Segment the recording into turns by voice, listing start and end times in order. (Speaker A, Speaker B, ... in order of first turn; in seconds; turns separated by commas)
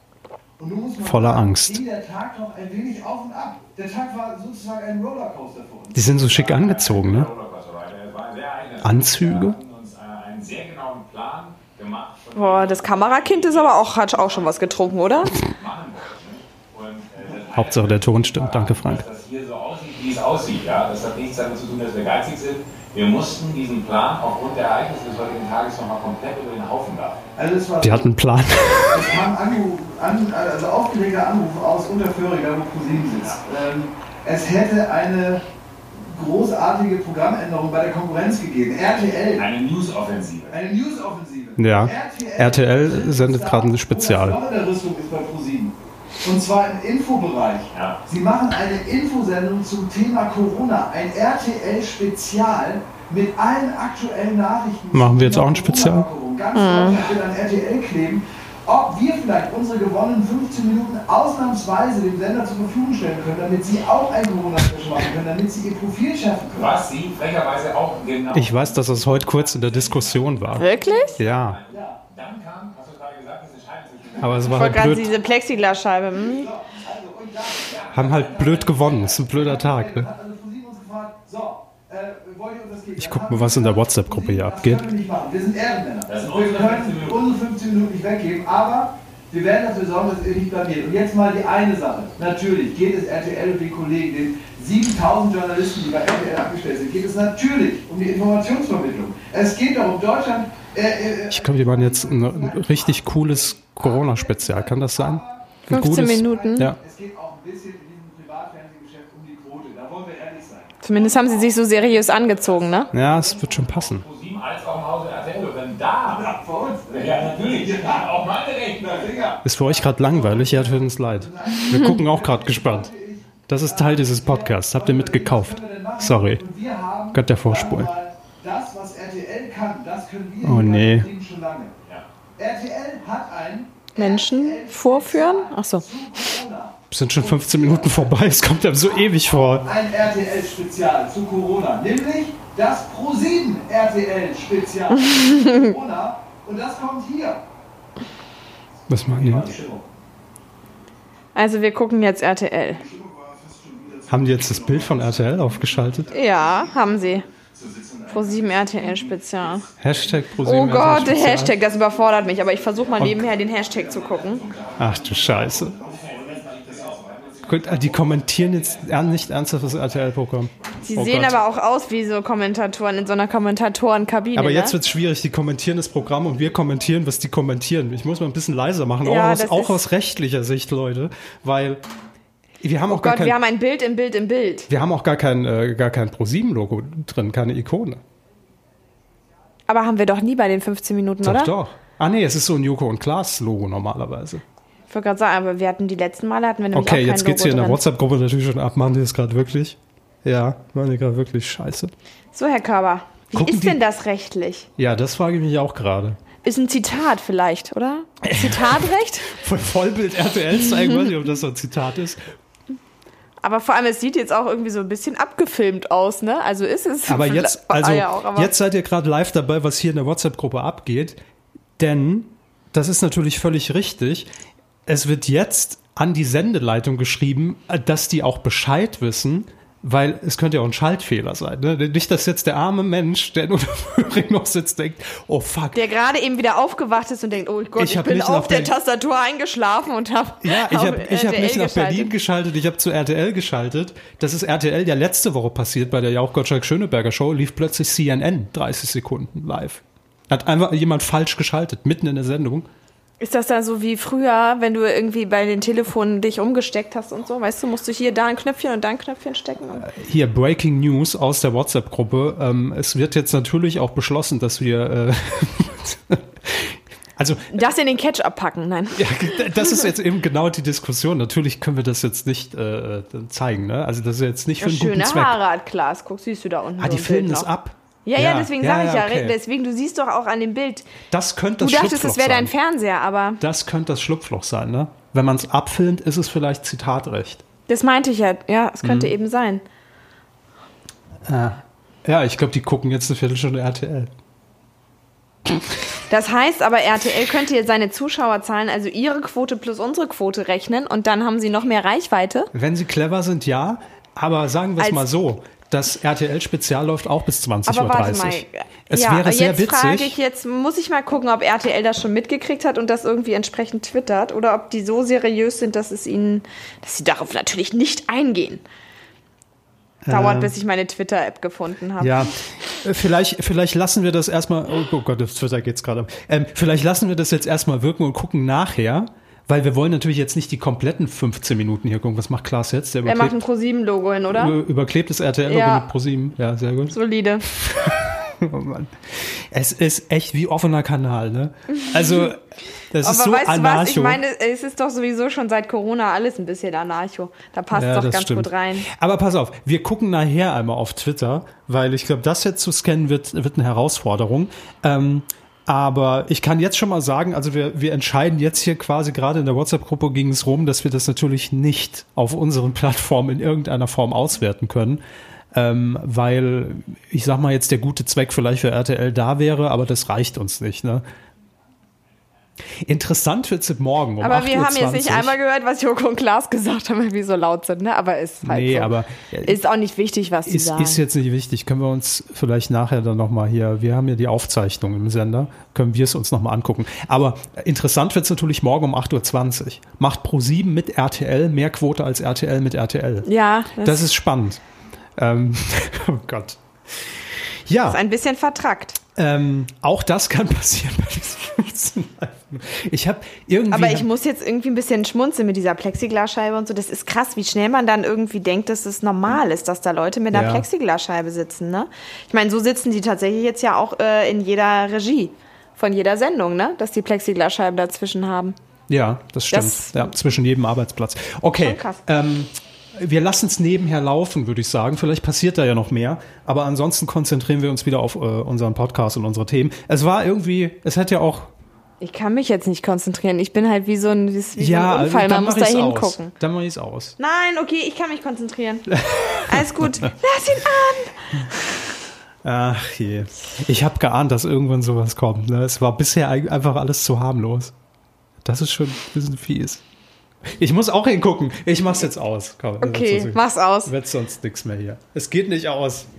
Speaker A: 0.6-6.1, Speaker B: 1.0-1.8, Speaker B: 5.9-7.3, Speaker C: 6.1-27.2, Speaker B: 8.8-9.6, Speaker D: 12.3-15.4, Speaker B: 17.5-19.0, Speaker A: 27.4-28.1, Speaker B: 27.8-29.1, Speaker A: 28.9-39.5, Speaker C: 39.4-40.6, Speaker A: 40.5-66.8, Speaker B: 41.6-44.4, Speaker C: 47.7-48.0, Speaker B: 54.9-56.1, Speaker D: 56.5-57.0, Speaker C: 66.5-75.1, Speaker B: 68.3-71.6, Speaker D: 70.6-71.2, Speaker A: 71.7-72.0, Speaker B: 74.2-75.1, Speaker D: 74.5-76.5, Speaker A: 76.1-113.2, Speaker C: 77.6-79.6, Speaker B: 77.9-80.1, Speaker B: 83.0-84.9, Speaker C: 86.0-87.3, Speaker B: 101.3-106.8, Speaker D: 105.7-106.7, Speaker D: 110.8-112.9, Speaker C: 112.7-116.3, Speaker B: 112.9-114.0, Speaker A: 116.1-118.1, Speaker C: 116.9-119.1, Speaker A: 118.8-131.7, Speaker B: 119.4-122.9, Speaker D: 121.7-122.0, Speaker B: 123.5-126.4, Speaker B: 127.1-127.9, Speaker B: 130.4-131.1, Speaker A: 132.4-147.4, Speaker D: 133.9-135.8, Speaker B: 136.9-139.7, Speaker D: 144.9-145.7, Speaker B: 148.9-149.5, Speaker A: 148.9-149.8, Speaker D: 151.3-152.8, Speaker A: 152.7-156.8, Speaker B: 154.1-156.1, Speaker D: 156.1-157.3, Speaker A: 157.5-159.6, Speaker D: 158.1-159.7, Speaker B: 159.8-161.6, Speaker D: 160.4-164.5, Speaker A: 161.3-168.1, Speaker B: 163.0-163.2, Speaker C: 164.6-169.2, Speaker B: 164.8-165.8, Speaker B: 167.4-171.4, Speaker D: 170.8-174.8, Speaker B: 174.3-181.8, Speaker D: 179.0-179.8, Speaker B: 182.6-183.4, Speaker D: 182.9-184.7, Speaker B: 184.7-188.0, Speaker D: 189.7-191.5, Speaker B: 191.2-194.4, Speaker D: 194.9-197.8, Speaker B: 196.7-201.9, Speaker D: 202.3-204.7, Speaker B: 203.3-203.8, Speaker B: 204.8-206.2, Speaker D: 206.4-209.3, Speaker B: 208.2-212.2, Speaker D: 213.4-218.5, Speaker B: 217.1-221.2, Speaker B: 221.8-224.3, Speaker B: 224.9-235.8, Speaker D: 235.7-242.1, Speaker B: 237.8-238.7, Speaker B: 240.4-252.7, Speaker D: 253.2-259.9, Speaker B: 259.8-267.7, Speaker D: 267.5-269.9, Speaker B: 268.9-275.4, Speaker D: 274.6-277.5, Speaker B: 276.8-279.4, Speaker D: 278.0-280.9, Speaker B: 281.1-282.5, Speaker D: 281.6-283.4, Speaker B: 283.4-287.4, Speaker D: 287.7-289.6, Speaker B: 288.8-289.1, Speaker B: 291.2-294.1, Speaker D: 296.1-302.5, Speaker B: 302.5-310.1, Speaker D: 304.8-305.1, Speaker D: 307.6-318.6, Speaker B: 320.0-320.5, Speaker D: 320.1-322.3, Speaker B: 322.0-333.3, Speaker D: 333.0-334.6, Speaker B: 334.3-337.0, Speaker D: 335.5-335.9, Speaker D: 336.9-337.4, Speaker B: 337.5-344.2, Speaker D: 343.0-348.9, Speaker B: 347.7-365.0, Speaker B: 365.5-371.1, Speaker B: 372.8-375.3, Speaker D: 374.2-381.0, Speaker B: 378.4-379.6, Speaker B: 380.4-393.3, Speaker D: 393.2-394.1, Speaker B: 393.8-394.6, Speaker B: 395.2-396.6, Speaker B: 397.7-398.0, Speaker D: 397.9-399.0, Speaker B: 399.1-404.1, Speaker D: 403.7-418.6, Speaker B: 410.3-410.6, Speaker B: 418.9-431.5, Speaker D: 419.5-420.1, Speaker D: 421.6-422.0, Speaker D: 432.0-436.3, Speaker B: 434.6-437.2, Speaker D: 437.2-441.5, Speaker B: 439.0-440.1, Speaker B: 442.4-447.7, Speaker B: 448.4-449.8, Speaker B: 450.6-456.1, Speaker D: 452.8-453.9